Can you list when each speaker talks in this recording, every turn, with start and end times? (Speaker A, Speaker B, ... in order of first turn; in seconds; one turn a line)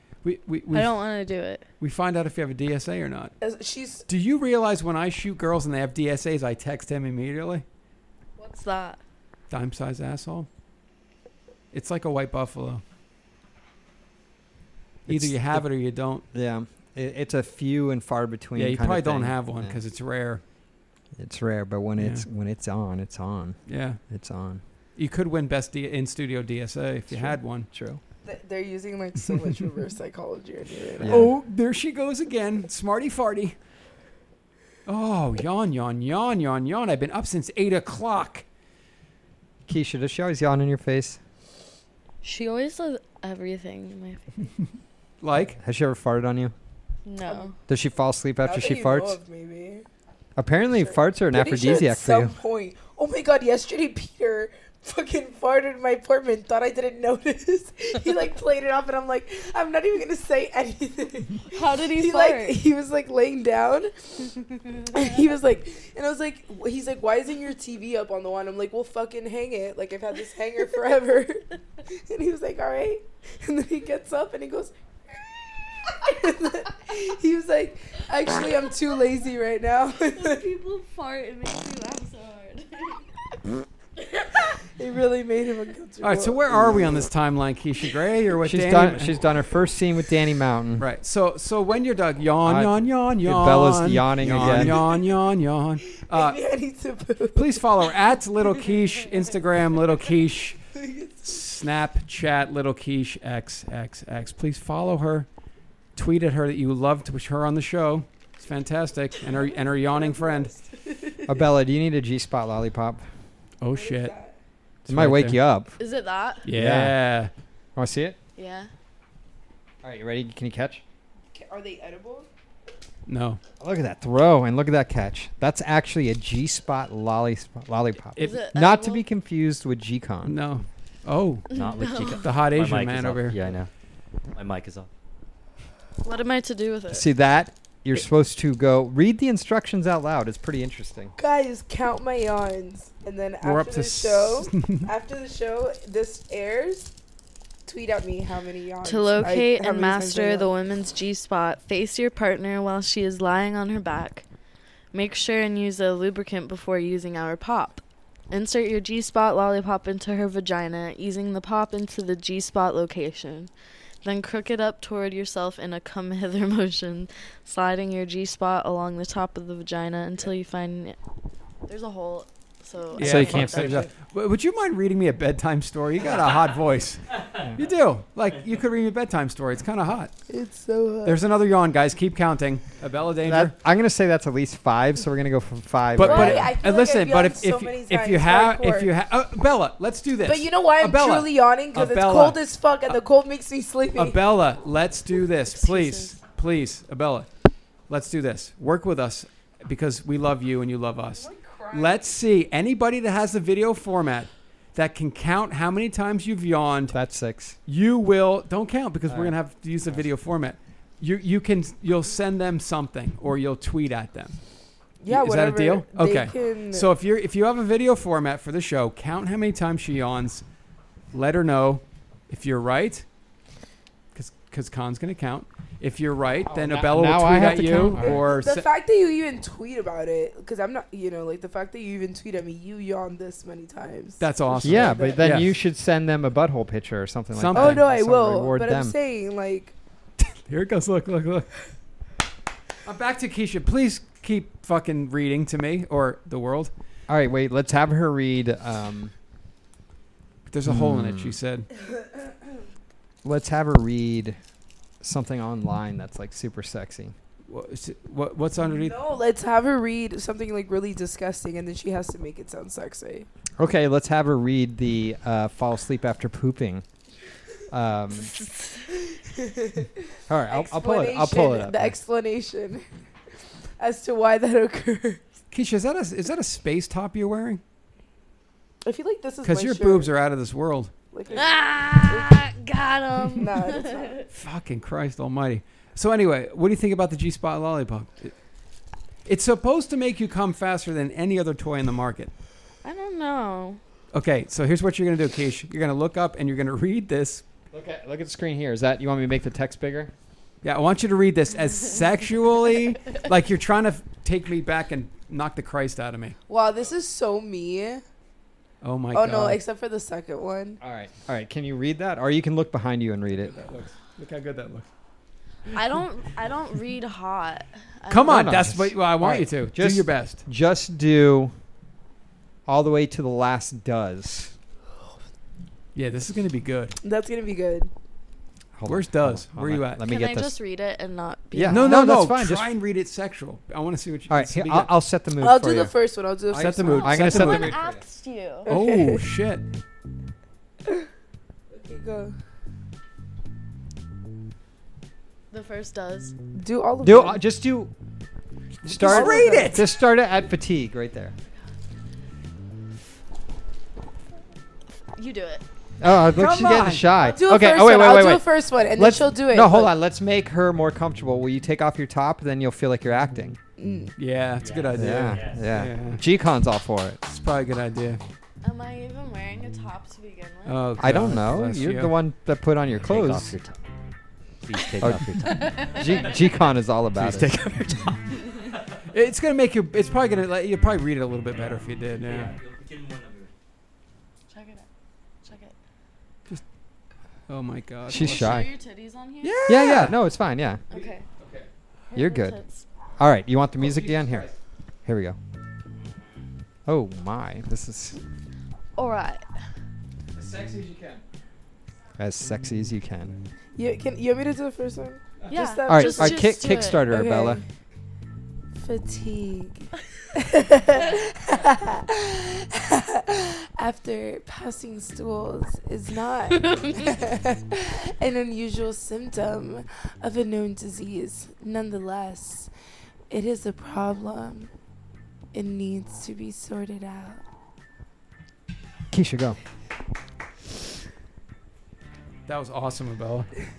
Speaker A: 0.2-0.9
Speaker B: 0.7-1.6
Speaker A: 1.8-3.3
Speaker C: 3.4-4.0
Speaker A: 4.1-7.6
Speaker B: 8.4-9.0
Speaker A: 9.5-10.5
Speaker A: 11.7-12.8
Speaker D: 15.1-15.7
Speaker A: 15.1-16.2
Speaker D: 16.3-19.8
Speaker A: 18.6-20.4
Speaker D: 21.2-24.6
Speaker A: 22.0-22.2
Speaker A: 23.7-24.0
Speaker A: 25.0-27.7
Speaker D: 27.1-28.0
Speaker C: 28.2-31.1
Speaker D: 31.0-31.3
Speaker A: 31.1-33.5
Speaker A: 34.9-38.5
Speaker D: 39.7-41.2
Speaker B: 42.2-44.3
Speaker A: 45.2-45.6
Speaker D: 45.6-46.5
Speaker B: 47.0-47.5
Speaker C: 47.3-47.5
Speaker D: 47.7-49.2
Speaker C: 48.4-49.9
Speaker D: 50.4-52.4
Speaker C: 50.8-64.2
Speaker B: 61.5-62.6
Speaker C: 64.9-80.4
Speaker B: 80.2-83.0
Speaker C: 84.8-87.0
Speaker A: 86.0-89.2
Speaker D: 88.4-90.8
Speaker A: 90.8-96.4
Speaker D: 92.5-94.8
Speaker C: 94.4-95.1
Speaker C: 96.0-97.6
Speaker A: 97.3-100.6
Speaker C: 100.8-101.2
Speaker A: 101.2-105.3
Speaker A: 106.0-110.5
Speaker C: 109.5-111.4
Speaker D: 111.3-113.1
Speaker A: 113.6-114.1
Speaker C: 113.7-114.4
Speaker A: 114.9-115.4
Speaker D: 114.9-115.8
Speaker B: 115.8-116.5
Speaker A: 116.5-117.3
Speaker D: 116.5-117.0
Speaker D: 117.8-118.2
Speaker B: 118.4-118.7
Speaker D: 119.8-120.8
Speaker C: 121.3-122.3
Speaker A: 123.1-123.4
Speaker D: 123.6-130.4
Speaker B: 128.2-129.0
Speaker A: 130.2-131.5
Speaker B: 131.5-132.2
Speaker E: 131.5-133.7
Speaker A: 132.2-133.4
Speaker E: 134.3-134.9
Speaker B: 136.0-137.1
Speaker D: 136.9-141.2
Speaker C: 141.2-146.9
Speaker A: 143.4-144.9
Speaker C: 147.7-150.5
Speaker B: 148.8-154.2
Speaker B: 154.9-163.5
Speaker B: 164.0-171.0
Speaker B: 171.7-173.8
Speaker A: 173.0-180.1
Speaker D: 173.0-173.9
Speaker C: 180.3-181.2
Speaker A: 181.1-183.6
Speaker D: 183.2-186.5
Speaker A: 186.0-193.0
Speaker C: 186.0-188.9
Speaker C: 190.2-194.2
Speaker A: 193.9-197.3
Speaker B: 195.5-196.2
Speaker A: 197.9-207.0
Speaker C: 201.1-202.1
Speaker D: 206.9-207.6
Speaker A: 207.7-214.3
Speaker D: 209.1-209.3
Speaker C: 215.0-216.9
Speaker A: 215.1-220.4
Speaker A: 221.1-223.1
Speaker A: 224.1-228.7
Speaker D: 226.5-228.2
Speaker C: 227.9-235.4
Speaker A: 234.2-235.5
Speaker D: 234.6-238.9
Speaker A: 237.3-237.8
Speaker C: 237.5-239.7
Speaker A: 240.5-241.5
Speaker A: 242.8-246.7
Speaker D: 247.1-249.1
Speaker A: 250.5-251.7
Speaker D: 250.7-251.4
Speaker D: 253.2-254.4
Speaker D: 255.0-257.1
Speaker A: 257.5-259.0
Speaker C: 258.7-263.3
Speaker D: 263.6-266.9
Speaker D: 267.7-268.4
Speaker C: 268.9-269.9
Speaker D: 270.3-272.0
Speaker C: 270.5-272.8
Speaker C: 273.8-275.2
Speaker A: 275.5-277.6
Speaker C: 278.8-280.1
Speaker A: 279.4-280.9
Speaker C: 281.1-282.4
Speaker B: 281.3-284.2
Speaker C: 283.4-284.2
Speaker A: 284.3-288.4
Speaker A: 289.3-292.3
Speaker B: 292.8-293.8
Speaker A: 294.1-297.4
Speaker D: 297.7-300.1
Speaker A: 300.6-306.4
Speaker C: 306.5-308.0
Speaker A: 308.8-309.6
Speaker C: 309.1-310.8
Speaker D: 310.8-313.6
Speaker A: 313.4-314.9
Speaker B: 315.7-318.5
Speaker A: 318.1-320.4
Speaker D: 318.2-321.5
Speaker D: 322.7-324.5
Speaker A: 325.9-327.0
Speaker C: 327.0-327.9
Speaker D: 328.8-330.6
Speaker A: 328.9-330.0
Speaker B: 330.1-332.1
Speaker D: 331.5-332.7
Speaker A: 331.7-334.9
Speaker D: 334.3-335.9
Speaker C: 335.4-337.6
Speaker D: 336.5-338.0
Speaker A: 336.5-337.8
Speaker B: 337.2-338.7
Speaker C: 338.7-339.2
Speaker A: 338.7-339.6
Speaker C: 341.7-342.4
Speaker B: 345.5-346.4
Speaker C: 346.6-347.4
Speaker D: 347.0-347.9
Speaker A: 348.9-349.8
Speaker D: 348.9-351.4
Speaker C: 349.0-349.8
Speaker B: 355.2-355.6
Speaker D: 356.0-363.6
Speaker A: 356.3-357.1
Speaker C: 357.2-359.9
Speaker C: 363.8-364.1
Speaker A: 364.2-366.2
Speaker E: 364.6-365.8
Speaker D: 364.9-367.2
Speaker A: 367.2-368.2
Speaker B: 368.6-370.9
Speaker A: 370.7-372.1
Speaker D: 371.0-373.6
Speaker E: 372.9-373.8
Speaker E: 374.6-376.6
Speaker D: 375.0-377.7
Speaker B: 375.5-376.2
Speaker E: 377.1-379.0
Speaker A: 379.1-382.5
Speaker E: 381.5-383.5
Speaker B: 384.5-384.9
Speaker B: 385.4-385.7
Speaker A: 387.5-388.7
Speaker D: 388.1-388.7
Speaker B: 388.2-389.6
Speaker A: 389.4-390.2
Speaker D: 389.7-390.8
Speaker B: 390.9-391.2
Speaker A: 390.9-391.7
Speaker B: 392.1-392.9
Speaker D: 392.1-392.6
Speaker D: 393.2-394.5
Speaker A: 393.8-394.6
Speaker D: 395.1-395.4
Speaker D: 396.9-398.2
Speaker B: 399.0-399.4
Speaker A: 400.3-401.2
Speaker D: 402.2-403.4
Speaker C: 403.8-407.6
Speaker B: 405.5-407.1
Speaker D: 405.9-407.6
Speaker C: 408.8-422.7
Speaker B: 416.6-417.1
Speaker C: 423.3-424.7
Speaker C: 425.5-427.4
Speaker D: 429.1-429.6
Speaker A: 432.5-433.5